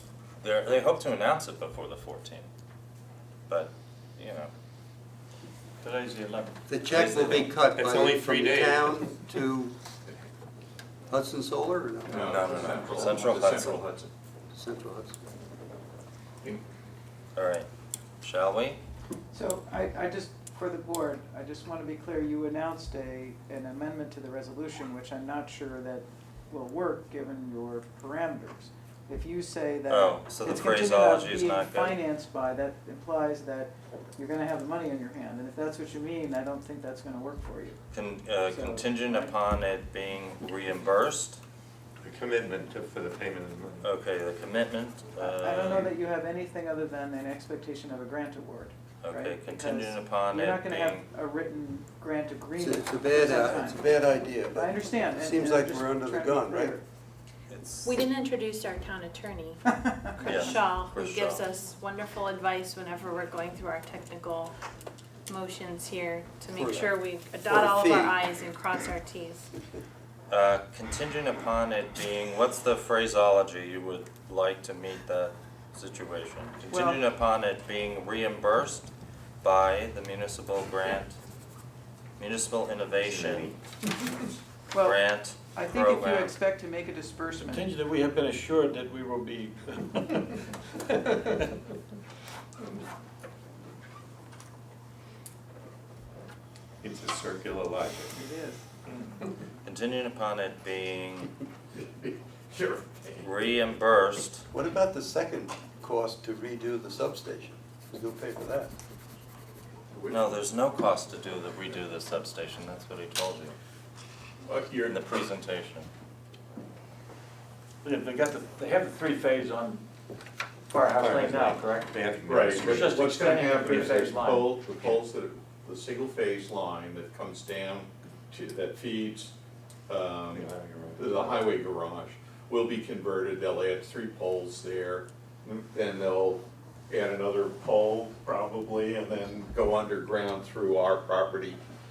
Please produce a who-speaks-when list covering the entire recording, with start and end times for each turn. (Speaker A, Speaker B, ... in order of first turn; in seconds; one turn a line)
Speaker A: 0.4-2.5
Speaker A: 3.5-4.5
Speaker B: 5.8-6.6
Speaker C: 6.7-9.7
Speaker A: 6.9-7.5
Speaker D: 7.1-9.2
Speaker C: 11.1-13.2
Speaker E: 12.1-14.1
Speaker A: 12.2-13.8
Speaker C: 14.5-15.2
Speaker A: 17.4-17.7
Speaker A: 18.2-18.8
Speaker F: 19.3-37.8
Speaker A: 29.9-32.0
Speaker A: 37.9-41.4
Speaker F: 38.5-39.3
Speaker D: 42.0-43.8
Speaker A: 43.8-45.9
Speaker F: 45.2-53.8
Speaker A: 49.0-51.0
Speaker C: 52.6-56.8
Speaker F: 54.5-56.8
Speaker A: 57.5-58.0
Speaker G: 57.8-59.6
Speaker F: 59.7-60.1
Speaker G: 60.1-64.5
Speaker A: 60.2-61.4
Speaker G: 65.3-69.5
Speaker C: 66.5-68.2
Speaker A: 70.3-78.9
Speaker F: 76.7-77.0
Speaker A: 79.4-81.2
Speaker A: 82.2-83.5
Speaker D: 83.0-83.5
Speaker F: 84.7-87.7
Speaker A: 84.8-86.3
Speaker B: 87.5-91.5
Speaker D: 96.8-98.2
Speaker F: 98.1-98.6
Speaker A: 99.6-101.3
Speaker E: 101.8-103.3
Speaker A: 103.2-104.4
Speaker C: 104.5-108.7
Speaker E: 109.9-110.3
Speaker A: 110.1-113.5
Speaker E: 114.5-115.0
Speaker A: 114.8-115.9
Speaker B: 117.8-119.8
Speaker B: 120.7-121.9
Speaker D: 121.0-123.8
Speaker E: 122.2-129.3
Speaker B: 122.5-124.6
Speaker E: 129.9-141.6
Speaker D: 130.3-131.5